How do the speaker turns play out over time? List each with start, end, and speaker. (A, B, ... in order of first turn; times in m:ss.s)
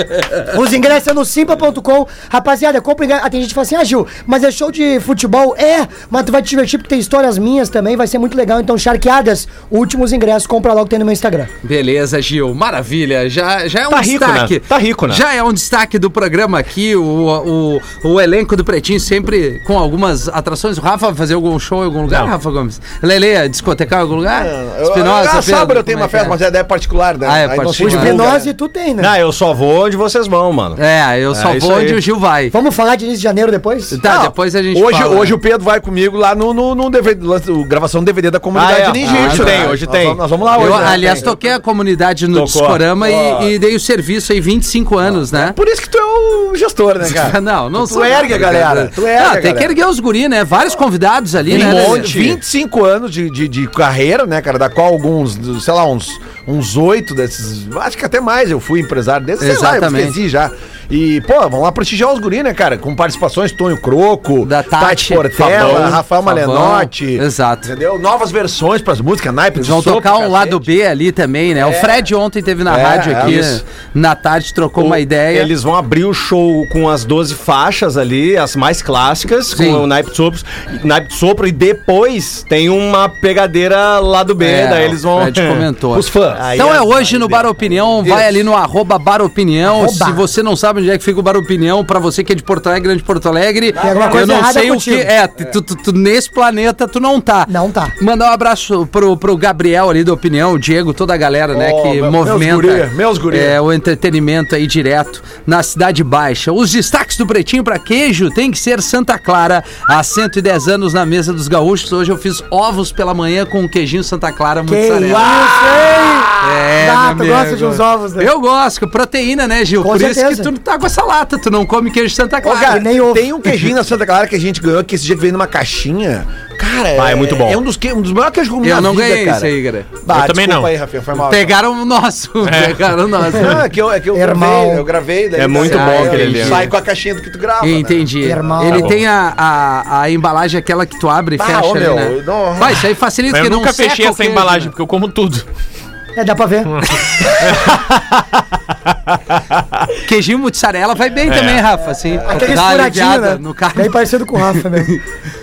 0:00.5-0:11.5 A
0:11.6-0:26.4 B
0:13.9-0:15.2 C
0:24.3-0:28.5 D
0:27.2-0:28.2 B
0:27.8-0:29.1 A
0:29.0-0:30.8 C
0:30.8-0:32.6 B
0:31.3-0:32.0 C
0:32.5-0:34.0 A
0:33.9-0:35.4 B
0:34.0-0:41.3 D
0:38.5-0:41.1 C
0:39.0-0:39.8 B
0:40.5-0:45.6 B
0:42.3-0:42.9 C
0:43.0-0:43.5 D
0:45.1-0:49.7 D
0:47.0-0:52.1 B
0:51.5-1:10.6 D
0:51.5-0:52.4 C
0:59.4-1:00.2 B
1:04.4-1:07.7 B
1:05.6-1:05.9 E
1:09.6-1:15.5 B
1:11.6-1:12.0 D
1:12.7-1:13.6 D
1:13.0-1:13.6 C
1:14.8-1:25.7 C
1:19.5-1:19.9 B
1:24.4-1:55.3 B
1:25.9-1:27.2 D
1:26.3-1:27.5 C
1:28.0-1:28.3 D
1:29.7-1:30.2 A
1:33.7-1:34.5 D
1:33.8-1:35.1 A
1:37.5-1:37.9 A
1:41.5-1:43.6 D
1:54.7-1:58.3 A
1:55.0-1:56.3 D
1:56.4-2:02.9 B
1:59.8-2:00.5 A
2:02.4-2:11.6 D
2:02.7-2:03.6 A
2:07.0-2:07.6 C
2:08.6-2:09.9 B
2:10.1-2:10.7 E
2:11.2-2:13.6 B
2:12.4-2:12.9 E
2:13.3-2:18.5 D
2:14.1-2:14.8 A
2:15.4-2:16.7 C
2:15.6-2:16.7 B
2:17.6-2:24.7 B
2:18.2-2:19.0 A
2:21.4-2:22.9 D
2:23.3-2:25.5 E
2:26.2-2:26.8 A
2:26.8-2:27.7 E
2:30.0-2:35.0 B
2:31.3-2:31.6 E
2:32.2-2:34.9 A